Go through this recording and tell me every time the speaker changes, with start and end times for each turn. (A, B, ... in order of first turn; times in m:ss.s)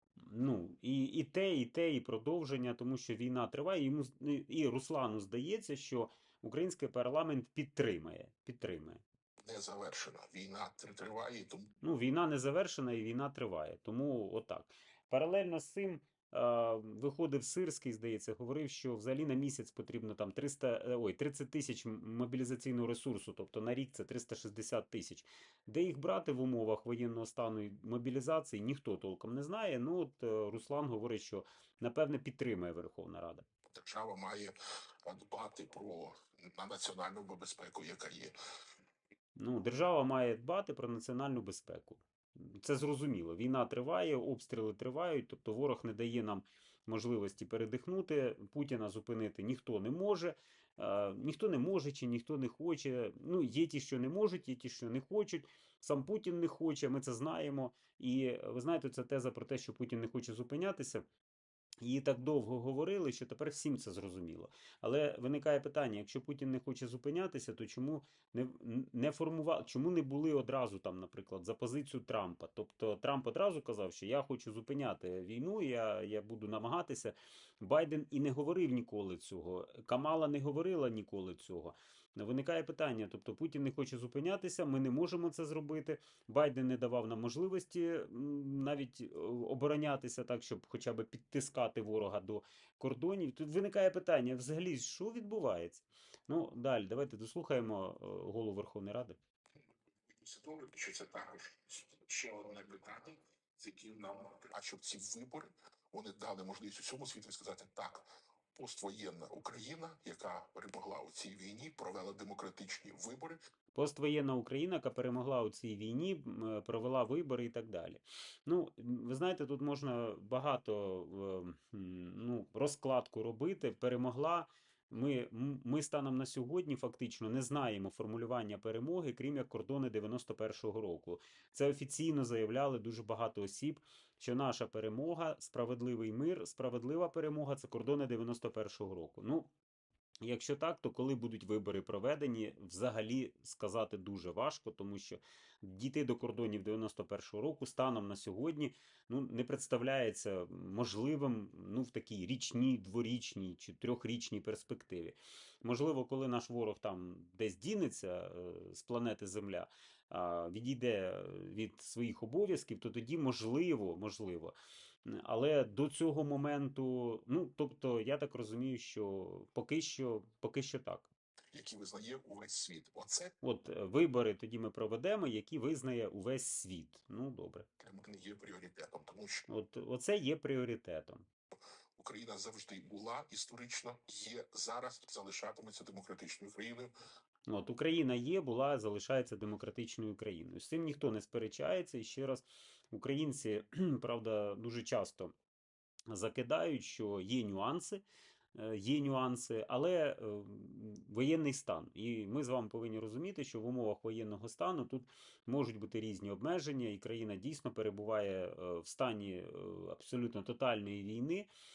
0:00.2-0:09.0 A
0:09.4-0:11.7 B
0:11.8-0:33.5 A
0:33.7-0:38.3 B
0:39.4-1:01.0 A
1:01.8-1:39.2 A
1:40.1-1:53.4 B
1:53.7-2:19.5 A
2:20.2-2:44.5 A
2:45.1-2:51.1 A
2:51.5-2:53.3 B
2:53.4-2:57.7 A
2:57.8-2:59.5 B
2:59.5-3:01.3 A
3:02.0-3:06.9 B
3:07.5-3:15.3 A
3:16.1-3:18.0 A
3:18.5-3:31.5 A